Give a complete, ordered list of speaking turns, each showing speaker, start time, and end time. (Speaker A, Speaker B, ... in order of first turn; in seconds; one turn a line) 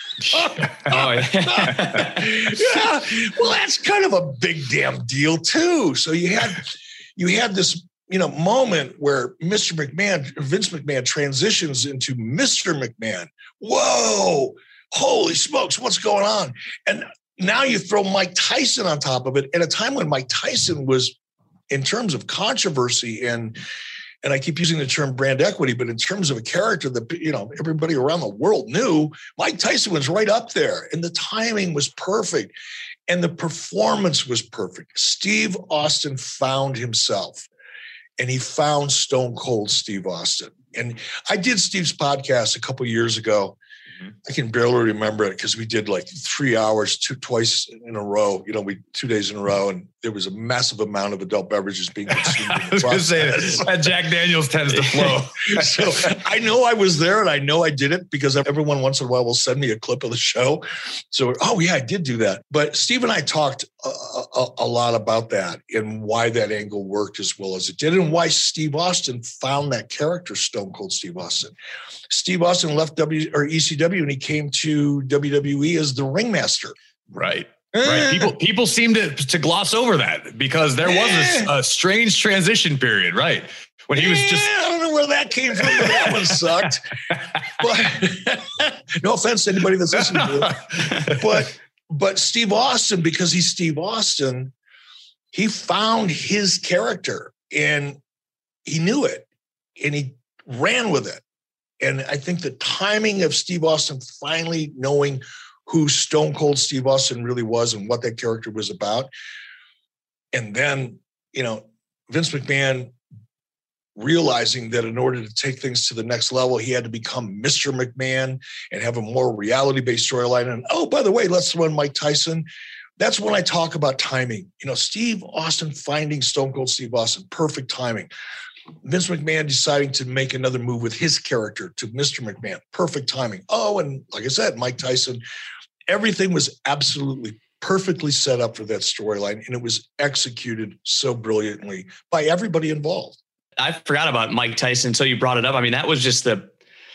Speaker A: 0.3-21.1
Speaker B: 0.9-2.3
Speaker A: 21.7-23.6
Speaker A: 24.2-32.5
Speaker A: 33.1-37.5
Speaker A: 38.2-43.6
Speaker A: 44.3-53.7
Speaker C: 52.1-56.1
Speaker A: 54.8-71.5
Speaker A: 72.1-76.8
Speaker C: 77.1-84.5
Speaker A: 77.8-78.3
Speaker A: 80.8-81.5
Speaker A: 84.0-86.9
Speaker C: 85.6-86.2
Speaker A: 87.6-94.5
Speaker C: 90.1-91.2
Speaker A: 95.3-98.0
Speaker A: 98.7-101.2
Speaker A: 101.8-109.1
Speaker A: 110.3-112.9
Speaker A: 114.0-122.5
Speaker A: 123.0-128.1
Speaker A: 128.8-135.2
Speaker A: 135.9-143.2
Speaker B: 143.6-146.5